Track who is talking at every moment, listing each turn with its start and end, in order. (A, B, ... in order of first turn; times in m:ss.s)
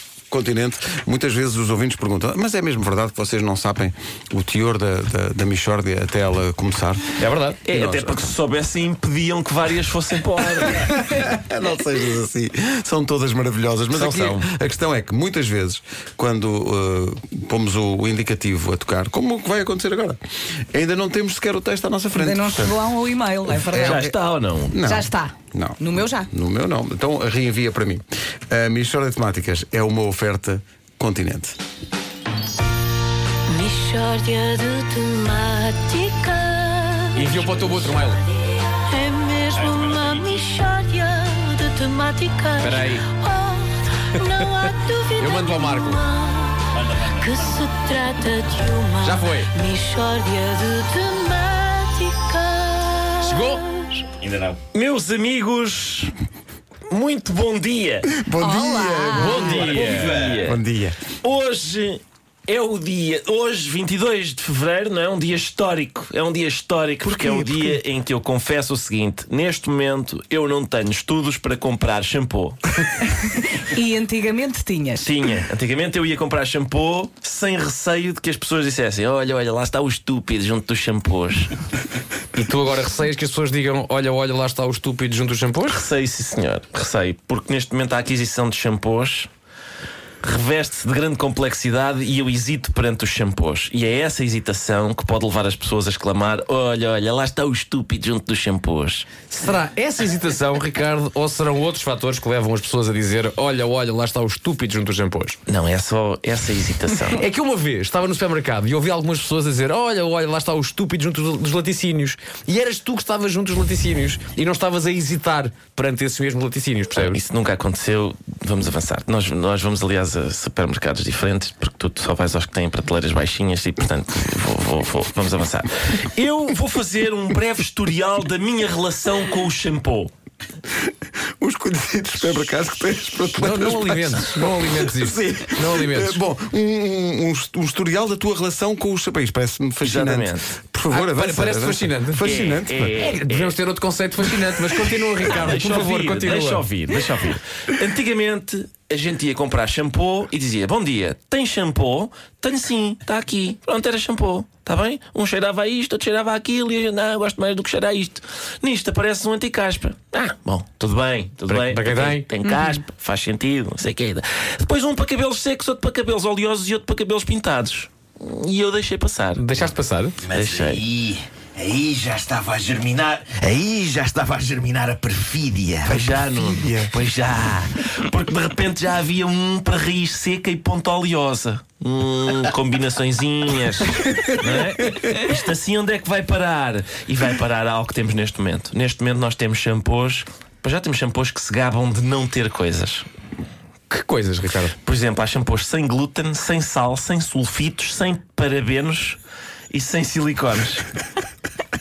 0:00.3-0:07.1 A
0:07.2-0:07.8 B
0:07.6-0:10.9 C
0:07.7-0:08.1 A
0:10.6-0:20.2 A
0:14.0-0:14.4 B
0:20.7-0:22.8 A
0:22.2-0:23.9 D
0:23.5-0:24.1 A
0:23.7-0:24.8 C
0:24.7-0:31.6 A
0:24.8-0:26.3 D
0:33.4-0:37.4 E
0:37.1-0:38.2 B
0:38.7-0:54.1 E
0:39.5-0:40.5 F
0:42.6-0:43.0 B
0:44.2-0:46.1 B
0:46.7-0:47.8 F
0:49.0-0:49.5 B
0:53.2-0:53.6 B
0:54.2-0:54.6 F
0:54.7-0:56.1 C
0:56.9-0:58.1 C
0:58.1-0:59.6 A
0:58.4-0:59.4 E
0:59.1-1:00.2 B
0:59.3-1:00.6 C
0:59.4-1:00.5 F
1:00.4-1:01.0 A
1:01.2-1:12.6 C
1:07.2-1:07.6 A
1:13.7-1:15.1 D
1:15.0-1:21.5 C
1:22.3-1:25.8 B
1:25.7-1:29.3 C
1:30.2-1:39.1 C
1:39.3-1:45.4 B
1:45.5-1:47.2 C
1:47.0-1:57.2 B
1:56.9-2:10.1 C
2:11.4-2:22.9 A
2:13.3-2:16.2 B
2:19.8-2:20.5 C
2:20.9-2:22.2 B
2:22.2-2:23.6 C
2:23.0-2:26.9 B
2:25.3-2:49.5 C
2:41.5-2:42.3 B
2:49.4-2:50.2 B
2:50.2-2:56.0 F
2:50.3-2:50.8 C
2:55.8-3:13.1 C
2:55.9-2:57.0 A
3:13.9-3:14.8 B
3:14.8-3:19.2 C
3:19.7-3:20.8 C